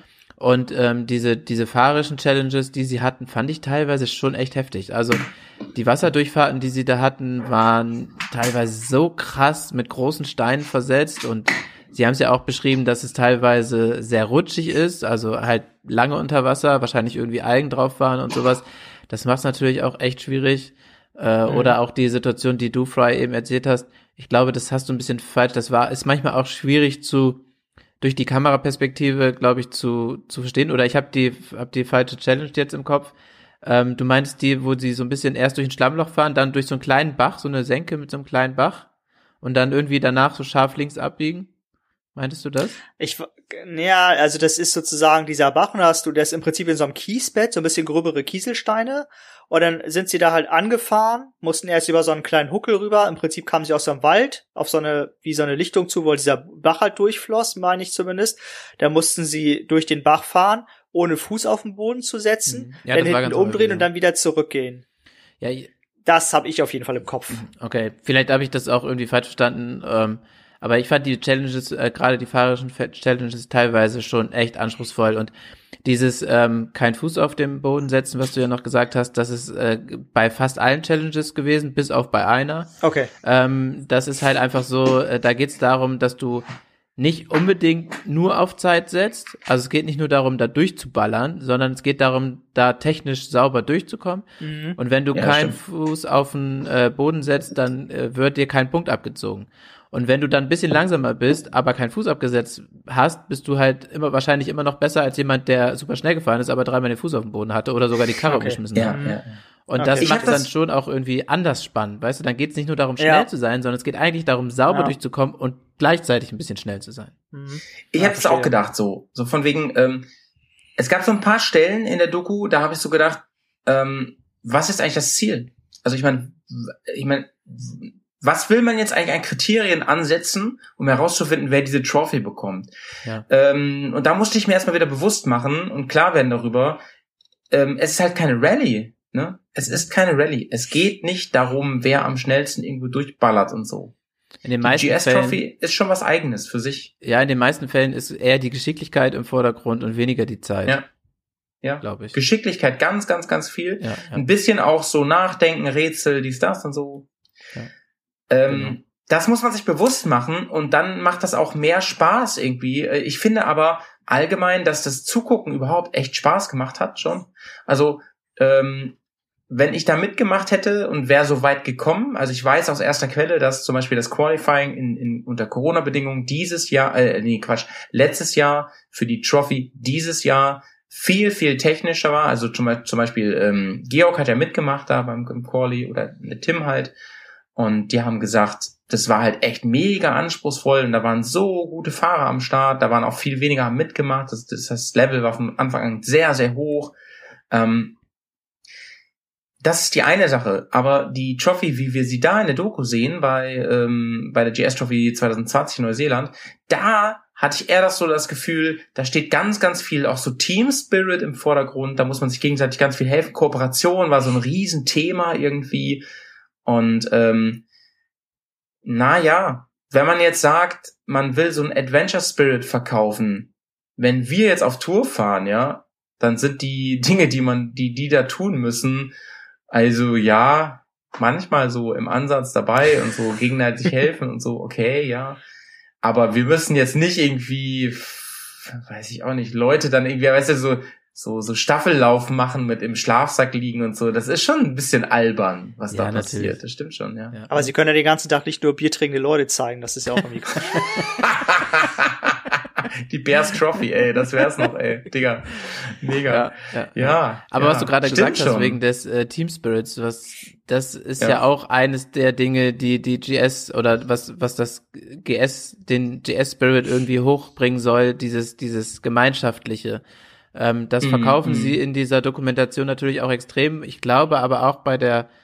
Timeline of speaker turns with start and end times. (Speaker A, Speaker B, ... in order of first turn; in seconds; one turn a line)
Speaker A: 0.4-27.4
Speaker A: 28.0-38.9
Speaker A: 39.4-41.5
Speaker A: 42.1-42.8
Speaker B: 43.0-64.8
Speaker A: 62.5-63.9
Speaker A: 65.4-65.7
Speaker B: 66.0-67.4
Speaker A: 67.4-75.3
Speaker A: 75.8-82.7
Speaker B: 82.8-83.1
Speaker A: 83.2-86.4
Speaker A: 87.0-109.0
Speaker B: 94.4-94.8
Speaker C: 95.1-95.5
Speaker B: 108.3-109.2
Speaker C: 108.7-109.4
Speaker A: 109.7-117.1
Speaker B: 109.8-110.3
Speaker C: 110.0-110.5
Speaker B: 113.0-113.2
Speaker B: 117.3-118.5
Speaker C: 117.9-120.1
Speaker C: 120.8-132.7
Speaker C: 133.3-136.8
Speaker C: 137.5-143.9
Speaker A: 144.4-145.4
Speaker C: 144.6-146.9
Speaker A: 147.0-150.8
Speaker C: 151.6-157.1
Speaker A: 151.8-152.2
Speaker A: 153.8-154.3
Speaker C: 158.3-169.0
Speaker A: 158.5-158.8
Speaker C: 169.5-186.9
Speaker C: 187.6-196.9
Speaker C: 197.5-198.0
Speaker C: 199.6-216.0
Speaker C: 216.7-217.6
Speaker C: 218.8-229.1
Speaker C: 229.7-235.4
Speaker C: 236.0-247.3
Speaker A: 245.9-246.6
Speaker A: 247.3-247.7
Speaker B: 247.5-250.7
Speaker C: 251.2-252.3
Speaker C: 253.1-258.8
Speaker A: 256.3-270.0
Speaker A: 270.5-275.3
Speaker C: 271.0-271.8